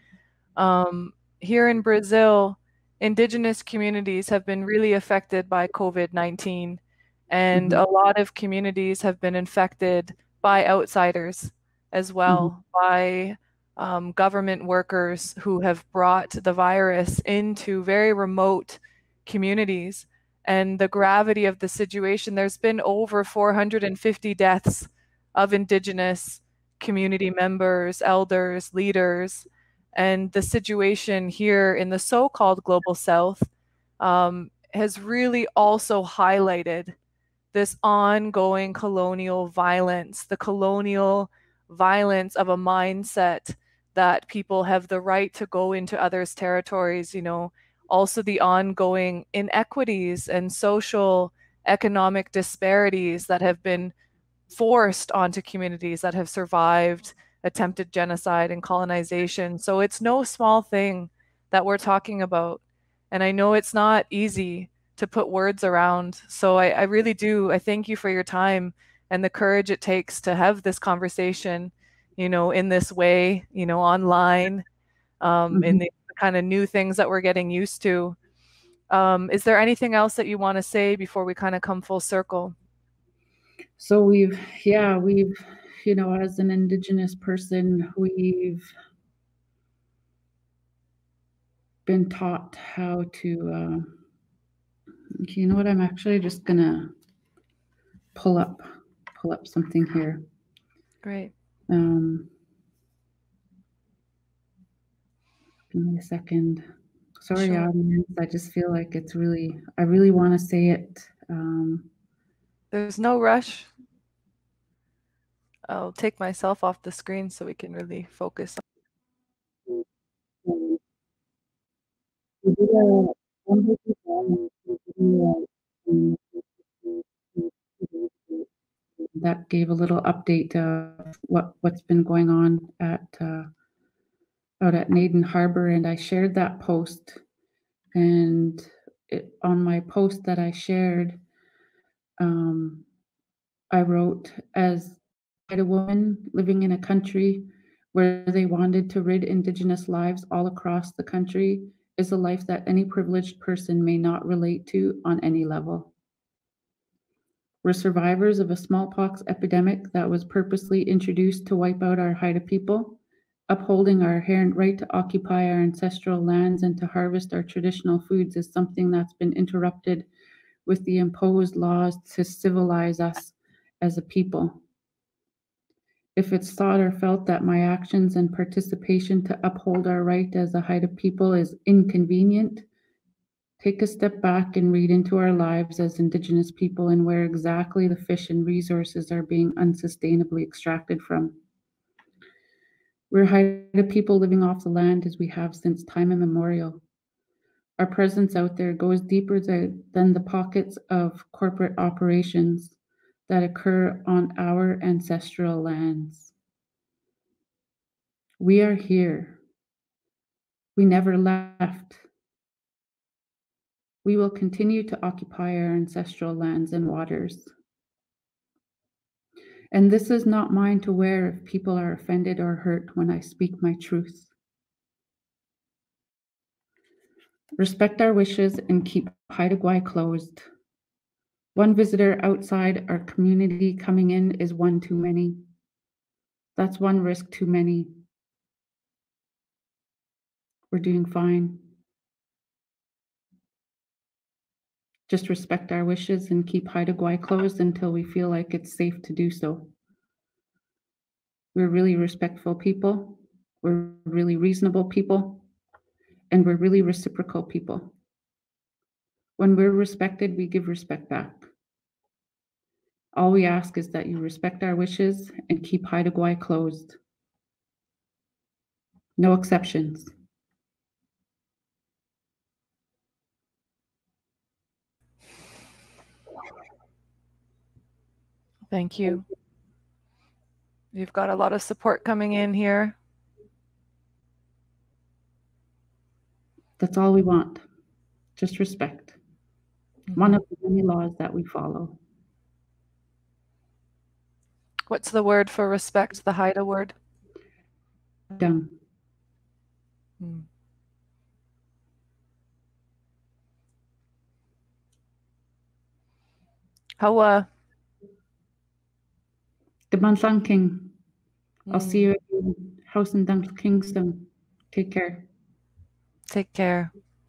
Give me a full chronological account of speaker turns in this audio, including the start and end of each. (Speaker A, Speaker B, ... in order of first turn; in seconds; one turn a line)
Speaker A: 0.6-33.5
Speaker B: 7.5-7.8
Speaker A: 34.0-37.0
Speaker A: 37.5-53.9
Speaker A: 54.5-74.6
Speaker A: 75.2-78.2
Speaker B: 75.5-75.8
Speaker A: 78.9-82.5
Speaker B: 83.8-88.7
Speaker B: 91.8-93.9
Speaker B: 95.2-96.9
Speaker B: 98.1-100.2
Speaker A: 101.0-101.3
Speaker B: 101.7-102.3
Speaker B: 105.7-106.6
Speaker B: 107.2-111.9
Speaker A: 107.3-107.7
Speaker A: 112.7-113.7
Speaker A: 115.7-118.6
Speaker B: 120.5-120.8
Speaker B: 122.4-126.2
Speaker B: 126.8-128.4
Speaker B: 129.1-133.5
Speaker B: 134.6-137.2
Speaker B: 137.9-141.2
Speaker B: 142.2-142.8
Speaker B: 143.7-155.9
Speaker B: 157.6-170.1
Speaker B: 170.7-174.6
Speaker B: 176.2-182.7
Speaker B: 183.6-191.3
Speaker B: 193.1-196.8
Speaker B: 197.8-202.8
Speaker B: 203.3-206.3
Speaker B: 208.4-209.4
Speaker B: 210.8-212.0
Speaker B: 214.0-217.5
Speaker B: 219.7-224.3
Speaker B: 227.6-230.4
Speaker B: 231.5-235.4
Speaker B: 236.6-237.9
Speaker B: 240.7-241.6
Speaker B: 245.1-249.7
Speaker B: 251.5-255.4
Speaker B: 256.3-257.9
Speaker B: 259.4-261.5
Speaker B: 263.1-267.0
Speaker B: 269.2-270.1
Speaker A: 278.7-279.2
Speaker A: 280.9-282.9
Speaker B: 286.8-287.6
Speaker B: 288.4-289.2
Speaker A: 290.1-290.4
Speaker B: 290.1-292.0
Speaker A: 294.9-296.9
Speaker B: 298.3-298.7
Speaker A: 300.2-300.4
Speaker A: 307.0-307.5
Speaker B: 309.9-310.9
Speaker A: 311.7-312.1
Speaker B: 311.7-315.2
Speaker A: 316.3-316.9